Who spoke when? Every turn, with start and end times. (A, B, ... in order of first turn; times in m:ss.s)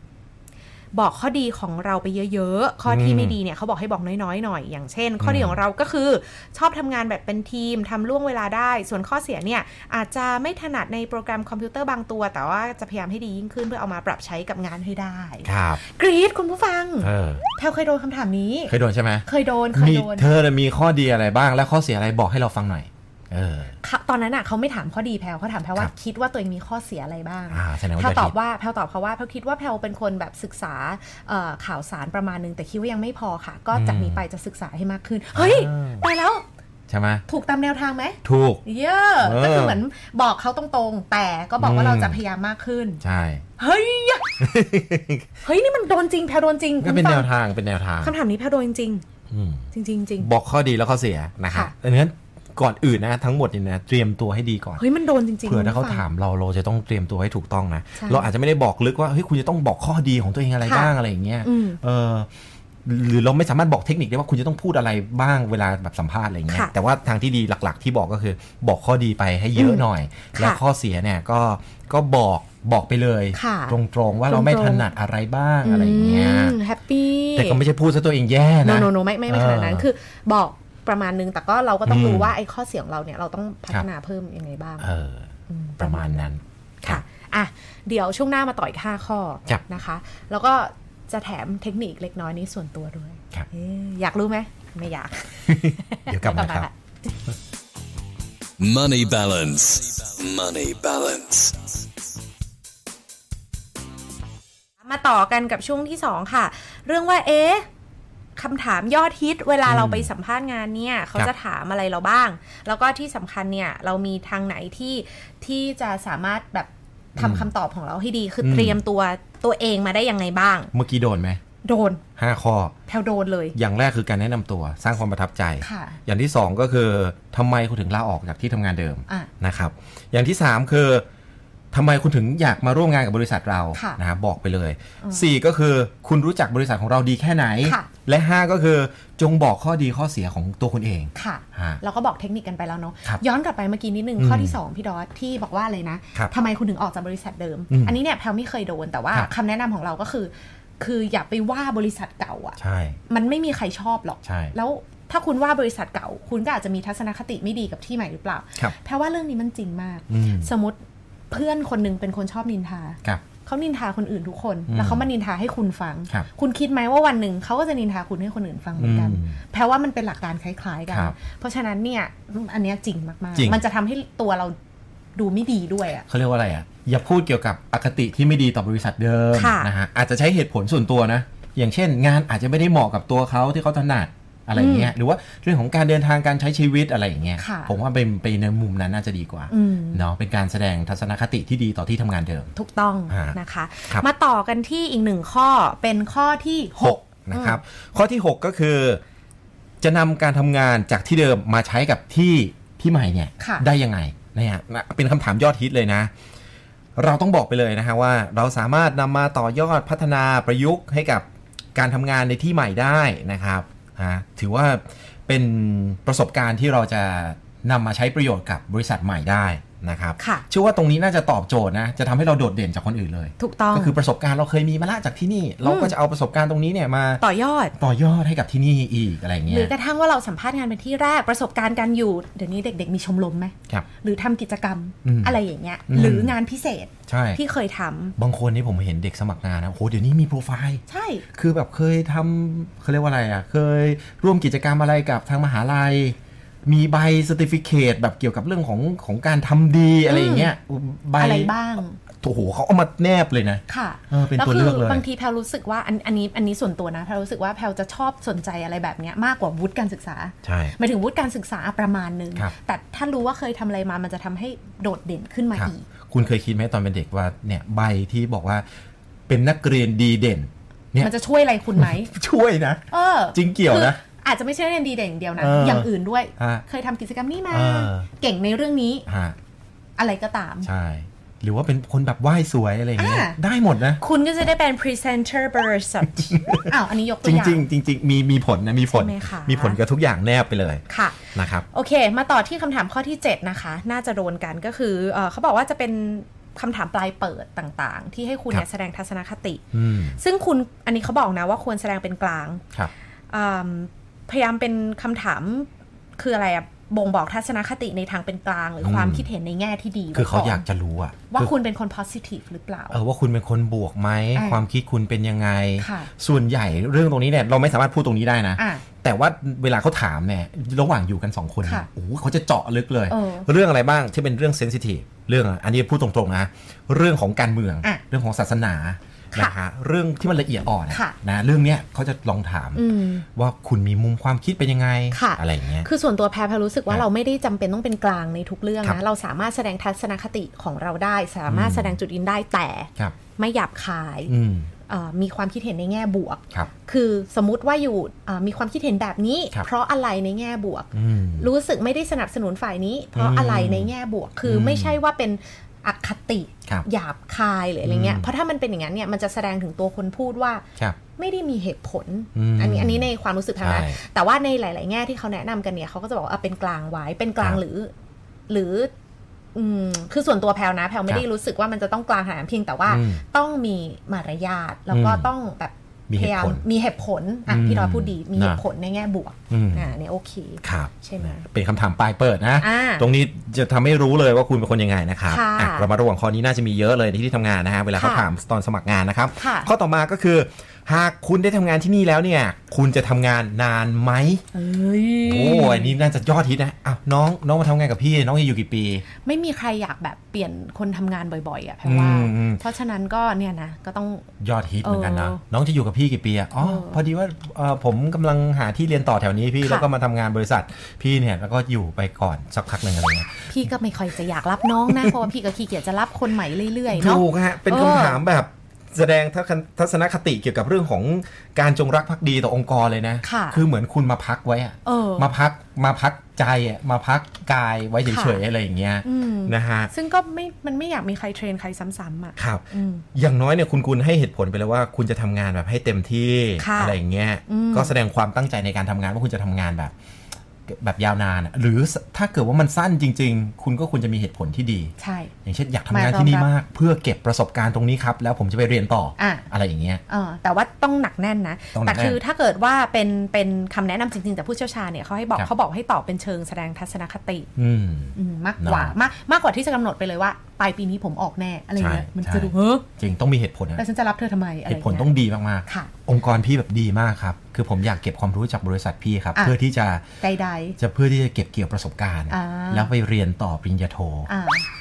0:00.9-0:18.8 A
0:02.9-0:03.4 B
0:05.2-0:05.6 B
0:15.4-0:15.8 B
0:17.0-0:17.4 B
0:18.7-0:23.8 B
0:19.3-0:20.3 A
0:23.8-0:36.4 A
0:27.5-0:28.3 B
0:33.7-0:34.2 B
0:35.4-0:36.1 B
0:36.9-0:37.2 B
0:37.3-0:43.0 A
0:38.2-0:38.6 B
0:39.2-0:39.8 B
0:41.6-0:42.2 B
0:43.0-0:43.4 B
0:43.6-0:44.4 A
0:44.4-0:45.3 B
0:45.4-0:47.3 A
0:46.8-0:48.1 B
0:48.0-0:49.0 A
0:49.3-0:49.7 B
0:49.7-0:50.3 A
0:50.2-0:54.8 B
0:54.8-0:56.0 A
0:55.4-1:02.3 B
0:58.0-0:58.3 A
1:00.6-1:00.9 A
1:01.4-1:01.8 A
1:02.8-1:16.6 B
1:09.6-1:09.8 A
1:10.3-1:10.6 A
1:13.3-1:14.9 A
1:15.6-1:17.6 A
1:17.4-1:19.9 B
1:18.6-1:24.9 A
1:21.9-1:22.3 B
1:24.8-1:27.0 B
1:25.5-1:26.3 A
1:26.8-1:37.1 A
1:35.5-1:36.7 B
1:38.6-1:41.6 C
1:44.8-1:47.7 A
1:48.4-2:00.7 A
1:49.6-1:50.1 B
1:57.2-1:57.5 B
1:58.4-1:58.8 B
2:00.7-2:01.4 B
2:01.6-2:02.0 A
2:02.2-2:02.8 B
2:02.9-2:03.6 A
2:03.6-2:11.0 B
2:05.6-2:06.0 A
2:11.7-2:21.8 B
2:13.8-2:14.0 A
2:15.0-2:15.3 A
2:17.6-2:17.9 A
2:21.2-2:40.8 A
2:24.2-2:24.6 B
2:27.7-2:28.0 B
2:32.6-2:33.0 B
2:34.2-2:34.6 B
2:40.1-2:40.5 B
2:41.3-2:54.6 A
2:44.7-2:45.1 B
2:48.8-2:49.4 B
2:50.9-2:51.2 B
2:53.4-2:53.6 B
2:55.2-2:56.1 A
2:56.1-3:12.5 B
2:59.3-2:59.7 A
3:04.5-3:04.9 A
3:07.4-3:07.7 A
3:09.5-3:10.0 A
3:12.6-3:17.6 A
3:13.1-3:13.4 B
3:16.8-3:19.0 B
3:19.8-3:26.1 B
3:23.4-3:23.7 A
3:27.0-3:47.2 B
3:40.2-3:40.5 A
3:43.4-3:44.0 A
3:45.6-3:45.9 A
3:47.2-3:47.7 A
3:47.8-3:49.7 B
3:49.5-3:58.2 A
3:55.0-3:56.4 B
3:57.1-3:57.4 B
3:58.2-4:00.8 B
4:00.9-4:01.2 A
4:01.3-4:11.5 B
4:10.1-4:10.5 A
4:11.2-4:12.0 A
4:12.2-4:15.0 B
4:13.7-4:25.9 A
4:20.4-4:20.8 B
4:25.5-4:28.7 B
4:29.3-4:31.1 B
4:31.0-4:32.1 A
4:31.7-4:34.0 B
4:32.9-4:39.1 A
4:35.4-4:36.6 B
4:37.5-4:38.1 B
4:39.1-4:39.4 B
4:40.0-4:40.7 A
4:40.6-4:44.0 B
4:43.0-4:43.4 A
4:44.0-4:47.6 A
4:46.2-4:46.7 B
4:47.2-4:51.6 B
4:48.9-4:49.8 A
4:50.9-5:02.6 A
4:59.7-5:00.2 B
5:03.3-5:10.6 A
5:08.8-5:09.3 B
5:10.1-5:11.5 B
5:11.3-5:13.0 A
5:12.9-5:35.9 B
5:14.4-5:14.6 A
5:15.8-5:16.1 A
5:18.6-5:18.8 A
5:23.1-5:23.5 A
5:30.9-5:31.2 A
5:32.8-5:33.2 A
5:35.1-5:44.3 A
5:41.5-5:42.0 B
5:44.3-5:44.7 B
5:44.9-6:00.6 A
5:50.9-5:51.5 B
5:53.2-5:53.9 B
5:54.4-5:55.0 B
5:57.8-5:58.3 B
6:01.2-6:07.9 A
6:02.4-6:04.0 B
6:08.5-6:08.9 A
6:09.6-6:21.4 A
6:12.9-6:13.2 B
6:14.9-6:15.3 B
6:16.1-6:16.6 B
6:17.5-6:18.6 B
6:19.5-6:19.9 B
6:20.6-6:34.4 B
6:22.6-6:23.1 A
6:25.3-6:25.9 A
6:28.0-6:28.3 A
6:29.4-6:29.7 A
6:34.5-6:36.0 A
6:35.2-6:39.0 B
6:39.2-6:44.3 A
6:41.8-6:42.6 B
6:44.4-6:53.5 B
6:44.8-6:45.4 A
6:46.6-6:47.0 A
6:49.6-6:49.9 A
6:53.5-6:58.2 A
6:56.9-7:09.9 B
7:03.2-7:03.6 A
7:04.9-7:05.3 A
7:08.1-7:08.4 A
7:09.0-7:13.0 A
7:12.4-7:19.9 B
7:16.6-7:17.9 A
7:20.7-7:24.9 B
7:25.0-7:25.3 A
7:25.4-7:30.0 B
7:25.9-7:26.5 A
7:29.2-7:29.5 A
7:30.1-7:37.5 A
7:31.7-7:32.2 B
7:37.6-7:39.0 B
7:38.2-7:42.8 A
7:41.8-7:43.8 B
7:43.8-7:45.1 A
7:44.7-7:50.0 B
7:45.6-7:45.9 A
7:50.2-7:50.8 A
7:50.8-7:54.3 B
7:52.3-7:52.9 A
7:54.3-7:54.7 A